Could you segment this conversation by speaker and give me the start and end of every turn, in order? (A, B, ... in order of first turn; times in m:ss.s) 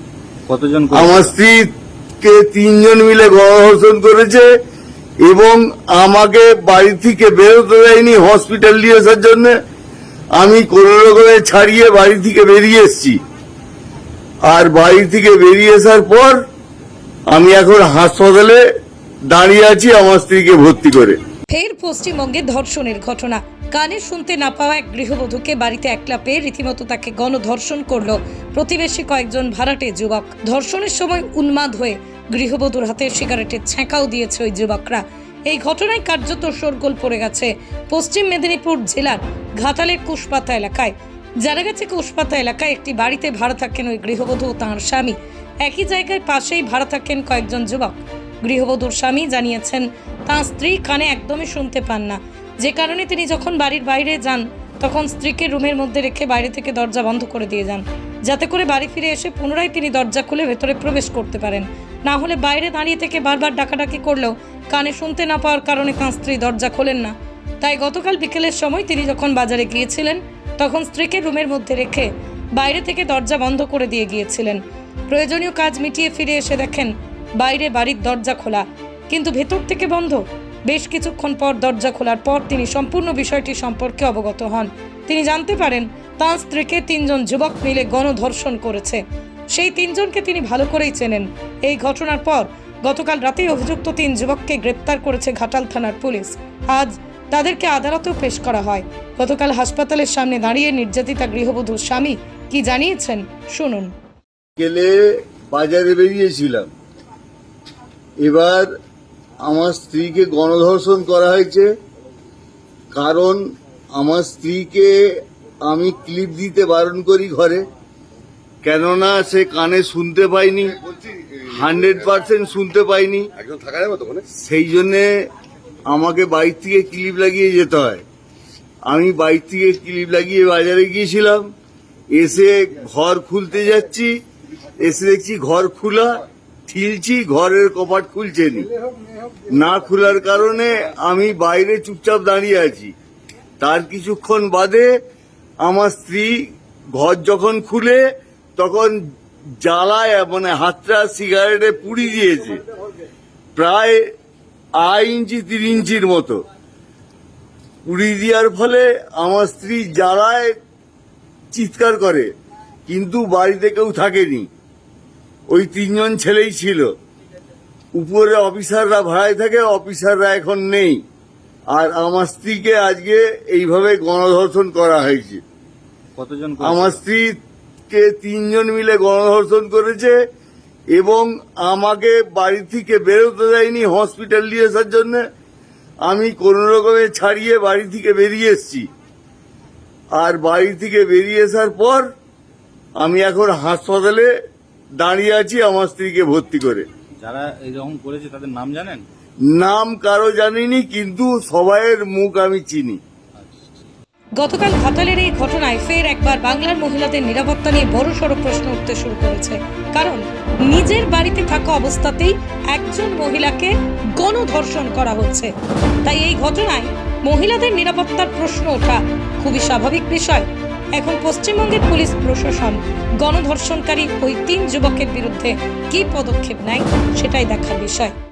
0:00.5-0:01.3 A
0:00.9-0:04.5 B
0:05.2-0:09.5 B
0:10.4-0:13.2 B
0:14.4-0:16.4 B
0:17.3-0:18.6 B
0:19.3-0:21.2 B
0:21.5-1:29.0 C
1:29.5-1:43.9 C
1:44.6-1:46.7 B
1:48.2-1:48.7 B
1:49.4-1:51.7 B
1:52.9-1:53.4 B
1:54.0-1:54.9 B
1:55.6-1:57.6 B
1:58.6-2:00.8 B
2:01.4-2:03.3 B
2:04.3-2:05.1 B
2:05.9-2:08.0 B
2:08.9-2:11.5 B
2:12.1-2:14.2 B
2:14.8-2:18.7 B
2:19.5-2:22.9 B
2:23.6-2:25.0 B
2:25.6-2:26.3 B
2:26.9-2:28.0 B
2:28.6-2:29.0 B
2:29.6-2:32.6 B
2:33.6-2:34.0 B
2:34.8-2:36.4 B
2:37.8-2:40.5 B
2:41.5-2:42.3 B
2:42.9-2:44.5 B
2:45.5-2:46.9 B
2:48.0-2:51.0 B
2:51.7-2:55.4 B
2:56.2-2:57.0 A
2:56.6-2:57.4 B
2:57.9-3:00.2 B
3:00.9-3:05.2 B
3:06.0-3:08.9 B
3:10.2-3:12.1 B
3:13.0-3:14.3 B
3:15.0-3:16.8 B
3:17.2-3:19.0 A
3:19.5-3:23.0 B
3:23.4-3:23.8 A
3:24.4-3:35.5 C
3:36.0-3:48.1 C